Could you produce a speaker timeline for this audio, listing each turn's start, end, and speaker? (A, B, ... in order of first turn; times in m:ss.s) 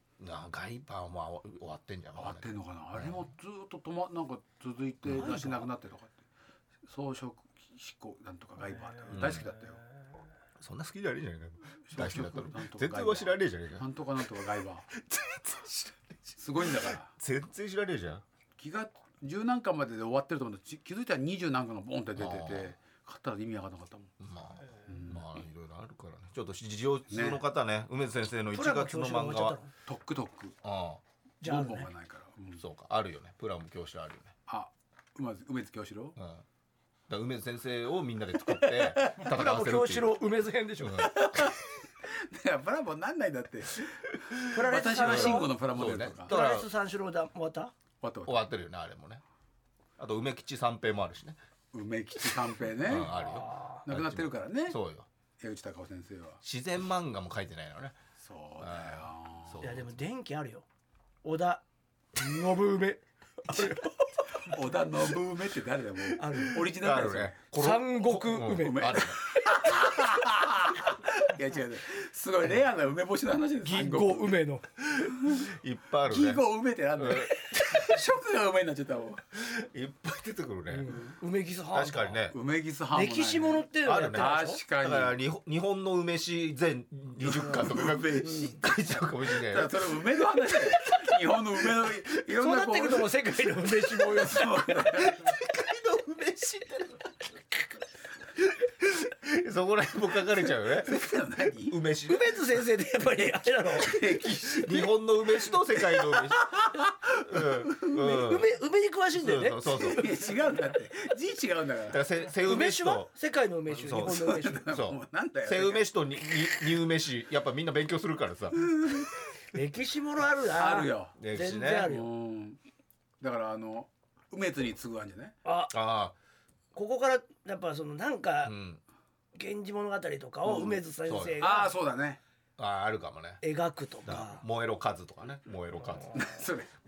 0:00.2-0:03.3 A
0:02.2-0:06.1 B
0:05.0-0:05.4 A
0:05.2-0:05.6 C
0:06.8-0:09.8 B
0:09.1-0:09.5 A
0:10.6-0:13.9 A
0:11.9-0:14.9 B
0:14.9-0:18.2 A
0:16.4-0:17.1 B
0:18.6-0:24.1 B
0:22.2-0:22.7 A
0:24.2-0:29.6 A
0:24.9-0:25.3 B
0:27.1-0:27.4 B
0:28.5-0:29.7 C
0:29.8-0:30.6 B
0:30.6-0:31.0 A
0:31.4-0:31.9 C
0:31.4-0:32.6 B
0:32.6-0:34.3 A
0:34.5-0:36.2 B
0:36.2-0:36.4 A
0:37.1-0:40.2 A
0:38.5-0:39.2 B
0:39.2-0:41.1 C
0:40.8-0:41.5 A
0:41.0-0:46.3 B
0:44.5-0:45.6 C
0:45.0-0:46.7 A
0:46.3-0:47.7 C
0:48.0-0:48.4 B
0:48.2-0:49.2 A
0:50.0-0:51.4 A
0:51.7-0:53.1 B
0:52.8-0:55.0 A
0:53.1-0:53.8 C
0:53.8-0:54.8 B
0:55.4-0:56.4 B
0:56.4-0:58.0 A
0:58.2-0:59.6 B
0:58.6-0:59.9 A
0:59.6-1:00.6 C
1:01.2-1:01.6 C
1:02.1-1:04.2 C
1:04.4-1:07.4 B
1:06.2-1:06.6 C
1:06.6-1:09.2 A
1:07.5-1:09.7 C
1:08.6-1:14.3 B
1:13.6-1:14.6 C
1:14.8-1:16.4 A
1:16.1-1:19.2 B
1:17.0-1:17.8 A
1:19.3-1:21.0 A
1:20.7-1:22.2 C
1:21.7-1:22.4 A
1:22.3-1:25.1 B
1:22.9-1:24.6 C
1:23.8-1:29.9 A
1:27.2-1:28.6 B
1:29.2-1:33.2 B
1:32.4-1:35.0 C
1:33.8-1:35.2 B
1:35.0-1:37.1 A
1:38.4-1:41.0 A
1:40.8-1:41.8 B
1:41.6-1:42.4 A
1:42.1-1:44.0 C
1:43.7-1:47.7 B
1:44.4-1:46.6 A
1:47.2-1:48.5 A
1:47.9-1:50.1 C
1:49.1-1:50.0 A
1:49.8-1:52.0 B
1:51.9-1:53.1 A
1:52.4-1:54.7 C
1:53.7-1:59.0 A
1:53.9-1:55.8 B
1:58.6-1:59.0 B
1:59.5-2:02.1 C
2:00.6-2:01.2 B
2:01.2-2:01.9 A
2:01.9-2:02.6 B
2:03.2-2:05.3 B
2:05.4-2:05.7 C
2:05.7-2:06.1 A
2:06.7-2:08.6 C
2:08.4-2:08.8 A
2:09.3-2:11.7 C
2:10.4-2:10.8 B
2:11.1-2:11.4 A
2:11.4-2:12.2 B
2:12.6-2:13.4 A
2:13.4-2:14.4 C
2:14.0-2:16.4 A
2:16.1-2:16.7 B